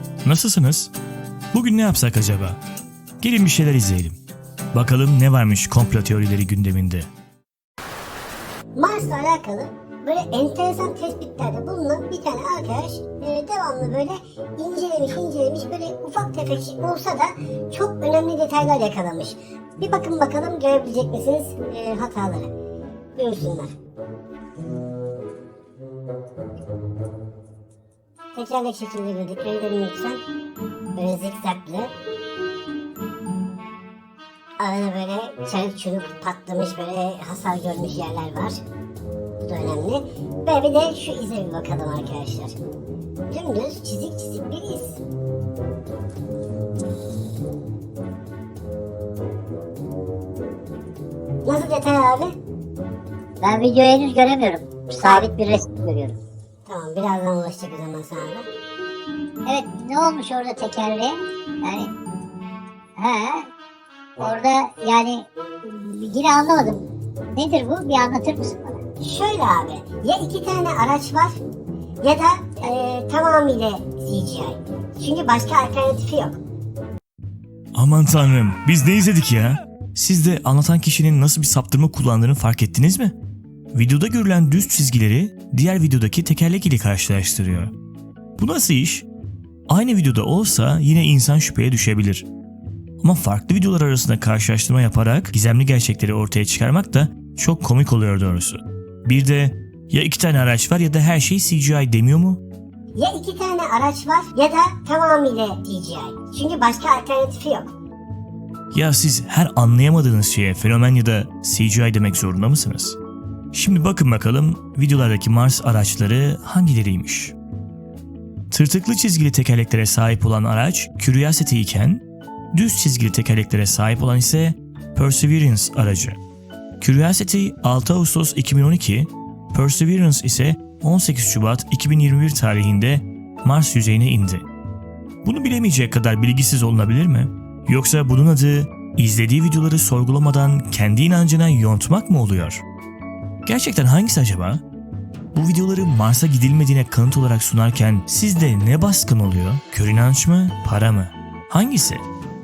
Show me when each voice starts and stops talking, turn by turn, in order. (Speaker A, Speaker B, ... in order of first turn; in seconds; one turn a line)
Speaker A: 0.2-0.9
Speaker A: 1.5-2.6
Speaker A: 3.2-4.2
Speaker A: 4.7-7.1
Speaker B: 8.7-22.5
Speaker B: 23.1-23.7
Speaker B: 28.3-30.2
Speaker B: 30.9-31.9
Speaker B: 34.6-38.6
Speaker B: 39.4-42.6
Speaker B: 43.3-45.0
Speaker B: 51.4-52.4
Speaker C: 53.4-56.2
Speaker B: 55.0-55.3
Speaker B: 56.7-58.5
Speaker C: 59.5-61.9
Speaker C: 63.0-63.5
Speaker C: 64.2-68.8
Speaker B: 69.0-71.4
Speaker B: 72.0-76.4
Speaker A: 77.8-83.2
Speaker A: 83.7-87.7
Speaker A: 88.4-89.1
Speaker A: 89.7-92.3
Speaker A: 93.0-102.4
Speaker B: 103.0-107.7
Speaker A: 108.7-113.0
Speaker A: 113.5-117.3
Speaker A: 118.5-126.2
Speaker A: 126.8-134.5
Speaker A: 135.2-142.6
Speaker A: 143.5-144.6
Speaker A: 145.3-152.1